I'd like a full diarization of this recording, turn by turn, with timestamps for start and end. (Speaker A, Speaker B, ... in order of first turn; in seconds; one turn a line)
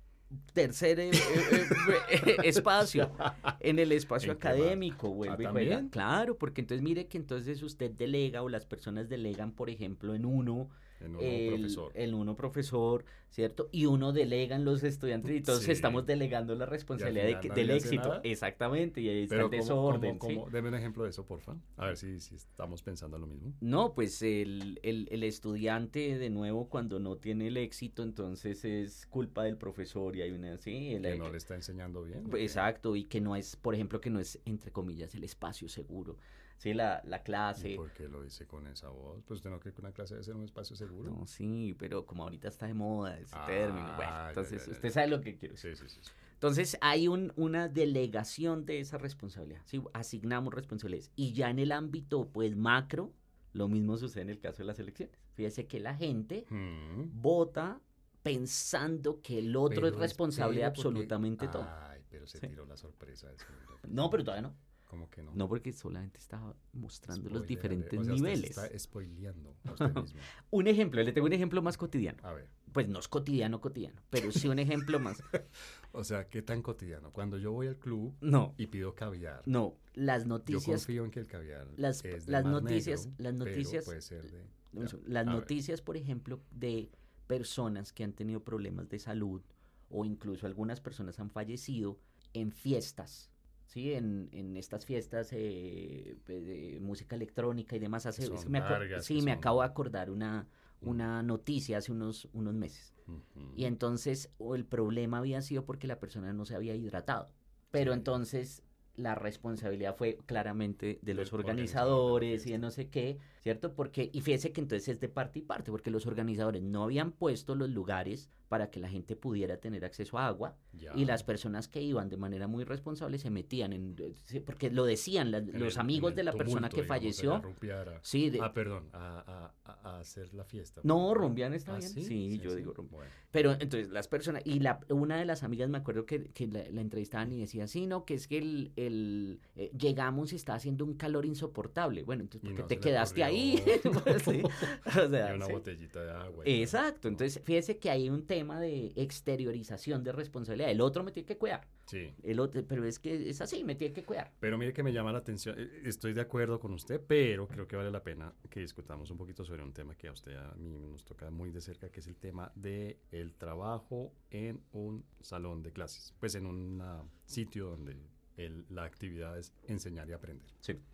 Speaker A: 0.5-20.4
Speaker B: 1.1-3.5
Speaker B: 4.2-5.9
Speaker B: 11.0-11.9
Speaker B: 15.4-16.1
Speaker B: 16.9-18.3
Speaker B: 19.3-23.6
Speaker A: 23.6-31.3
Speaker B: 31.0-32.6
Speaker A: 32.2-37.8
Speaker B: 37.6-41.2
Speaker A: 41.0-45.7
Speaker B: 43.3-45.0
Speaker B: 45.6-46.1
Speaker A: 46.4-56.5
Speaker B: 56.5-57.1
Speaker A: 57.1-61.7
Speaker B: 59.6-64.2
Speaker A: 63.9-64.6
Speaker B: 64.9-65.4
Speaker A: 65.3-68.7
Speaker B: 67.1-70.3
Speaker A: 69.7-75.3
Speaker B: 72.2-72.5
Speaker B: 75.3-79.5
Speaker A: 78.2-78.5
Speaker A: 79.5-80.9
Speaker B: 80.5-85.5
Speaker A: 81.8-83.9
Speaker A: 84.7-102.9
Speaker B: 98.2-99.7
Speaker B: 103.1-103.7
Speaker A: 103.5-127.5
Speaker B: 107.7-108.1
Speaker B: 111.1-112.7
Speaker B: 120.7-121.2
Speaker B: 125.5-133.2
Speaker A: 128.0-128.5
Speaker A: 130.8-145.6
Speaker B: 142.4-147.2
Speaker A: 146.4-151.7
Speaker B: 151.9-152.2
Speaker A: 152.2-154.3
Speaker B: 154.4-170.6